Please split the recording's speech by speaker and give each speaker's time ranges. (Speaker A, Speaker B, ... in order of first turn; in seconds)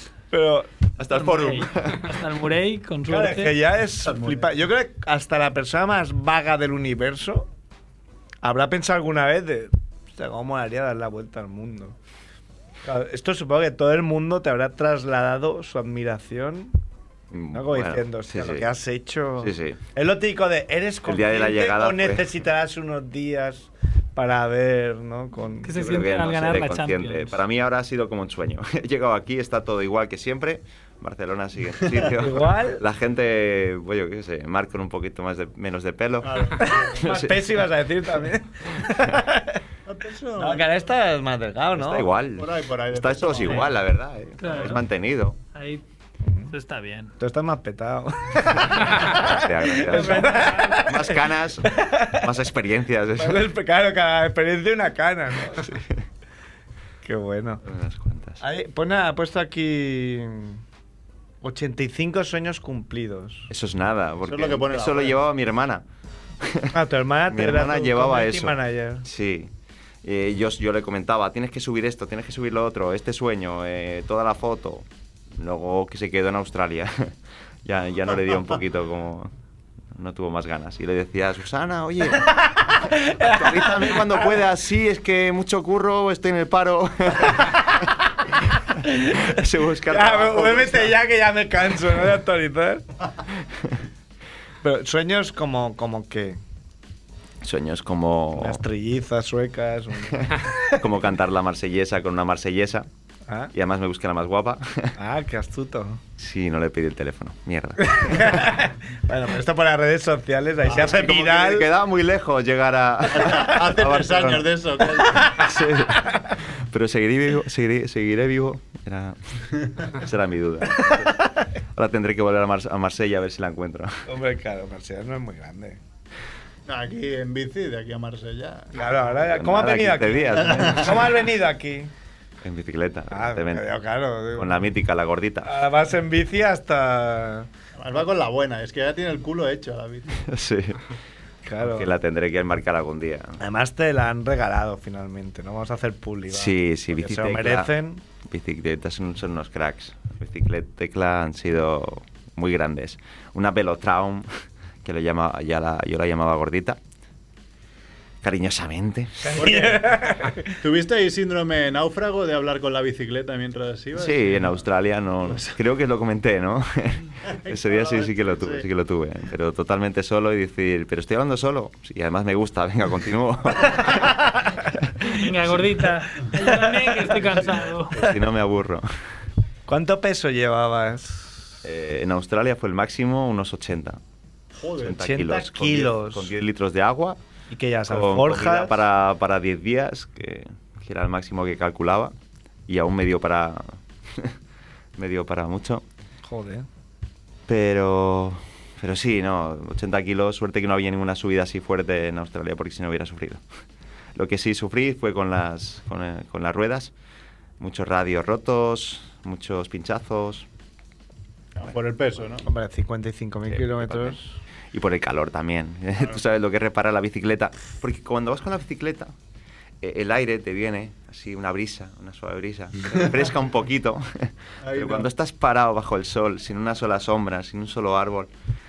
Speaker A: 0.3-0.7, 3.1-7.5, 8.4-12.0, 12.8-16.8, 17.5-25.8, 32.2-32.8, 36.6-39.6, 40.4-42.1, 46.3-46.5, 47.2-52.3, 53.2-55.8, 57.0-57.6, 58.4-60.6, 61.4-63.5, 66.7-69.0, 82.2-84.3, 87.3-87.9, 88.8-89.2, 89.9-92.9, 94.6-96.4, 98.4-100.4, 103.3-103.5, 105.0-106.0, 107.8-111.7, 115.0-115.3, 116.1-116.3, 120.8-121.5, 124.1-125.8, 128.7-131.9, 133.1-134.6, 135.4-137.5, 141.4-141.9, 143.4-148.0, 159.2-160.6, 173.9-174.4, 176.3-177.2, 179.7-181.6, 184.9-186.3, 187.5-188.8, 196.3-196.7, 212.4-214.4
Speaker B: 1.0-2.1, 17.3-18.7, 19.4-19.8, 21.1-22.3, 25.7-37.6, 41.8-45.4, 48.9-53.5, 55.6-56.0, 57.6-58.4, 63.5-65.8, 66.4-66.7, 67.3-69.5, 70.0-79.3, 79.9-82.3, 83.0-87.9, 88.9-91.0, 93.3-93.8, 97.4-98.6, 100.8-102.9, 103.5-105.0, 106.2-108.5, 110.7-114.5, 115.4-121.2, 121.7-124.0, 129.1-131.1, 132.4-133.7, 134.3-135.5, 140.2-140.9, 141.6-143.4, 146.3-147.7, 148.2-154.3, 154.8-156.8, 158.2-159.5, 163.9-174.1, 174.8-175.6, 177.9-178.9, 181.6-184.0, 184.8-187.2, 187.9-192.1, 192.7-194.3, 195.0-195.8, 197.5-203.4, 204.2-206.9, 207.6-210.5, 213.5-214.2, 214.7-219.1, 219.8-228.3
Speaker C: 1.1-3.6, 25.6-27.4, 44.4-44.8, 45.5-45.8, 46.5-47.1, 49.8-50.9, 175.1-178.0
Speaker D: 4.0-4.5, 36.2-37.0, 39.9-40.7, 42.4-43.7, 64.3-65.2, 113.1-115.4, 126.7-128.8, 137.8-140.2, 159.4-164.5, 165.2-165.6, 167.4-168.7, 184.6-185.0, 211.6-212.4, 224.6-225.1